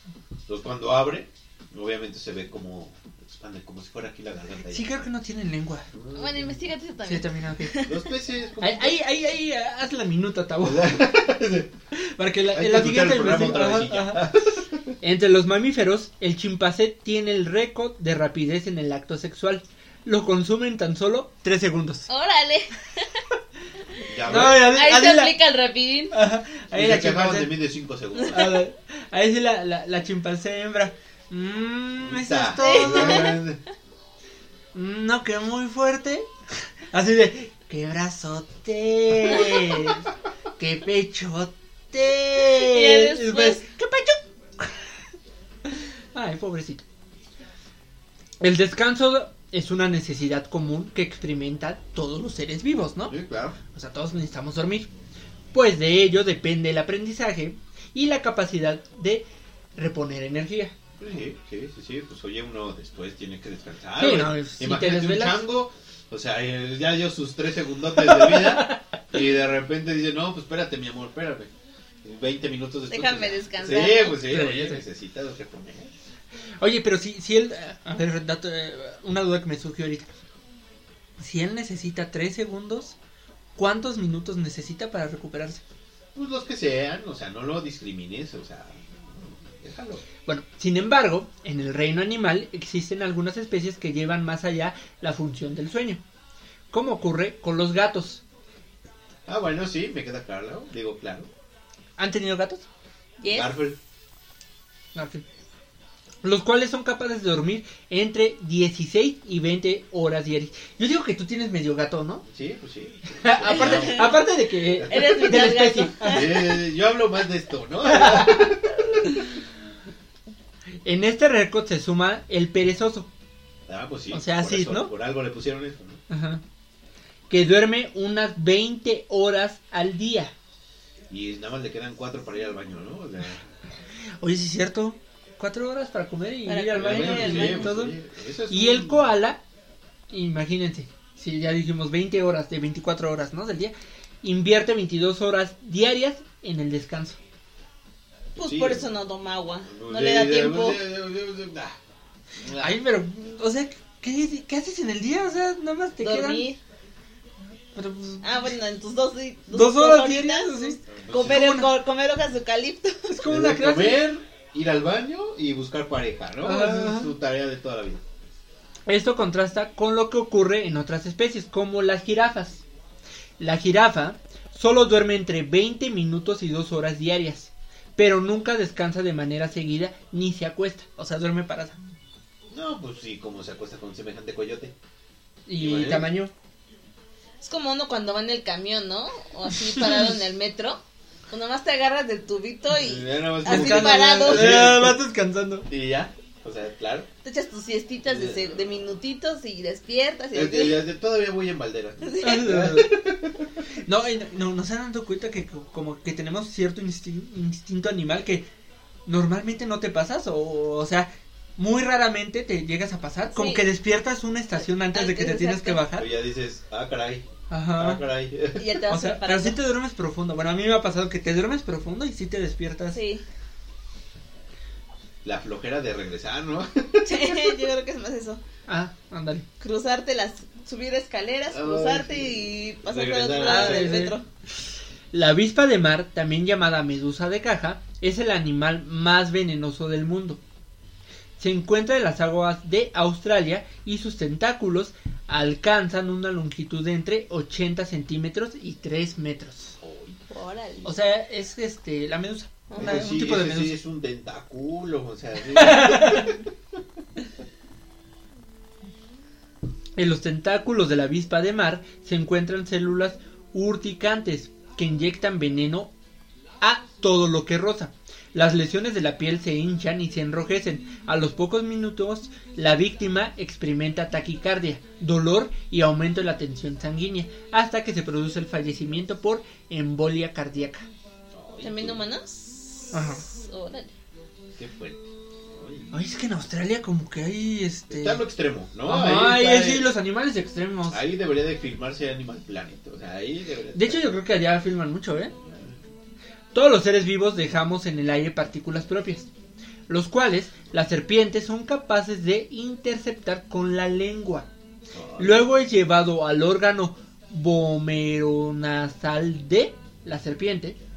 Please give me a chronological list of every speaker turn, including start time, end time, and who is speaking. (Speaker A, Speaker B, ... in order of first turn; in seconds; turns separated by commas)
Speaker A: 0.5-4.9, Speaker B: 4.7-5.9, Speaker A: 5.9-6.6, Speaker C: 6.1-8.0, Speaker B: 7.0-7.8, Speaker A: 7.8-9.0, Speaker B: 8.6-11.1, Speaker A: 10.6-11.7, Speaker B: 11.9-14.3, Speaker A: 12.5-15.0, Speaker B: 15.0-22.1, Speaker C: 22.1-23.1, Speaker A: 24.1-24.8, Speaker B: 24.3-25.4, Speaker C: 24.3-26.1, Speaker B: 26.1-27.6, Speaker A: 26.7-28.6, Speaker B: 28.3-33.4, Speaker A: 32.0-33.6, Speaker C: 32.6-33.4, Speaker B: 34.7-36.3, Speaker B: 36.9-40.1, Speaker B: 40.6-44.9, Speaker C: 42.4-43.6, Speaker B: 46.1-46.9, Speaker B: 48.4-53.2, Speaker A: 53.1-53.6, Speaker B: 53.7-54.9, Speaker B: 55.5-60.7, Speaker A: 61.0-71.5, Speaker B: 64.0-65.5, Speaker B: 68.0-68.9, Speaker A: 72.0-75.9, Speaker C: 72.9-74.2, Speaker B: 74.2-74.8, Speaker B: 76.6-80.1, Speaker B: 81.2-83.0, Speaker B: 83.6-85.6, Speaker A: 86.2-90.0, Speaker B: 90.3-96.0, Speaker B: 96.7-98.2, Speaker A: 99.3-101.3, Speaker B: 102.0-102.7, Speaker C: 103.2-103.5, Speaker A: 103.3-103.8, Speaker B: 105.0-105.2, Speaker B: 106.2-112.2, Speaker A: 112.3-114.2, Speaker B: 113.2-116.3, Speaker C: 113.4-114.3, Speaker A: 114.8-115.1, Speaker C: 114.8-116.6, Speaker A: 116.0-119.0, Speaker B: 117.8-118.6, Speaker B: 120.8-123.1, Speaker A: 123.7-126.0, Speaker B: 124.1-124.9, Speaker B: 126.1-126.4, Speaker B: 127.3-130.3, Speaker A: 131.1-133.5, Speaker B: 134.2-137.9, Speaker C: 136.5-137.7, Speaker A: 136.8-139.1, Speaker B: 138.5-139.4, Speaker B: 140.1-147.2, Speaker A: 148.4-148.9, Speaker C: 148.4-150.8, Speaker A: 149.7-151.8, Speaker A: 152.4-152.7, Speaker B: 152.5-156.5, Speaker C: 156.0-156.6, Speaker B: 157.8-158.5, Speaker C: 158.2-163.1, Speaker B: 159.5-161.7, Speaker A: 160.9-161.5, Speaker B: 163.1-164.1, Speaker A: 163.2-168.0, Speaker B: 166.4-167.1, Speaker B: 168.9-172.6, Speaker B: 173.4-181.8, Speaker A: 182.5-184.8, Speaker B: 185.5-186.3, Speaker A: 185.6-186.1, Speaker C: 187.4-194.6, Speaker B: 189.5-190.1, Speaker A: 192.7-195.0, Speaker B: 193.4-195.7, Speaker A: 195.7-197.1, Speaker C: 197.2-200.8, Speaker A: 198.1-198.7, Speaker A: 200.3-203.5, Speaker C: 202.0-202.6, Speaker B: 202.2-203.0, Speaker B: 203.8-208.5, Speaker B: 209.1-216.1, Speaker C: 213.3-213.6, Speaker C: 214.9-215.8, Speaker A: 215.9-218.7, Speaker B: 217.5-218.0, Speaker C: 218.6-219.6, Speaker B: 218.9-223.0, Speaker C: 222.9-223.2, Speaker A: 225.2-227.7, Speaker C: 227.1-228.4, Speaker B: 228.7-229.4, Speaker C: 229.6-234.2, Speaker A: 231.5-234.1, Speaker B: 233.4-234.2, Speaker B: 235.1-240.4, Speaker B: 241.4-249.8, Speaker A: 249.8-250.2, Speaker C: 250.3-250.9, Speaker B: 250.8-253.8, Speaker C: 252.7-253.0, Speaker A: 252.8-256.5, Speaker B: 255.5-256.3, Speaker B: 260.0-265.9, Speaker B: 266.6-280.9, Speaker A: 281.3-282.0, Speaker C: 281.6-283.9, Speaker B: 282.9-283.2, Speaker A: 284.6-286.0, Speaker B: 285.9-288.2, Speaker A: 287.9-289.9, Speaker B: 288.9-291.0, Speaker A: 290.9-294.2, Speaker B: 293.7-295.3, Speaker A: 295.4-295.8, Speaker B: 296.5-299.3, Speaker B: 299.9-304.5, Speaker A: 304.9-305.5, Speaker B: 305.2-310.8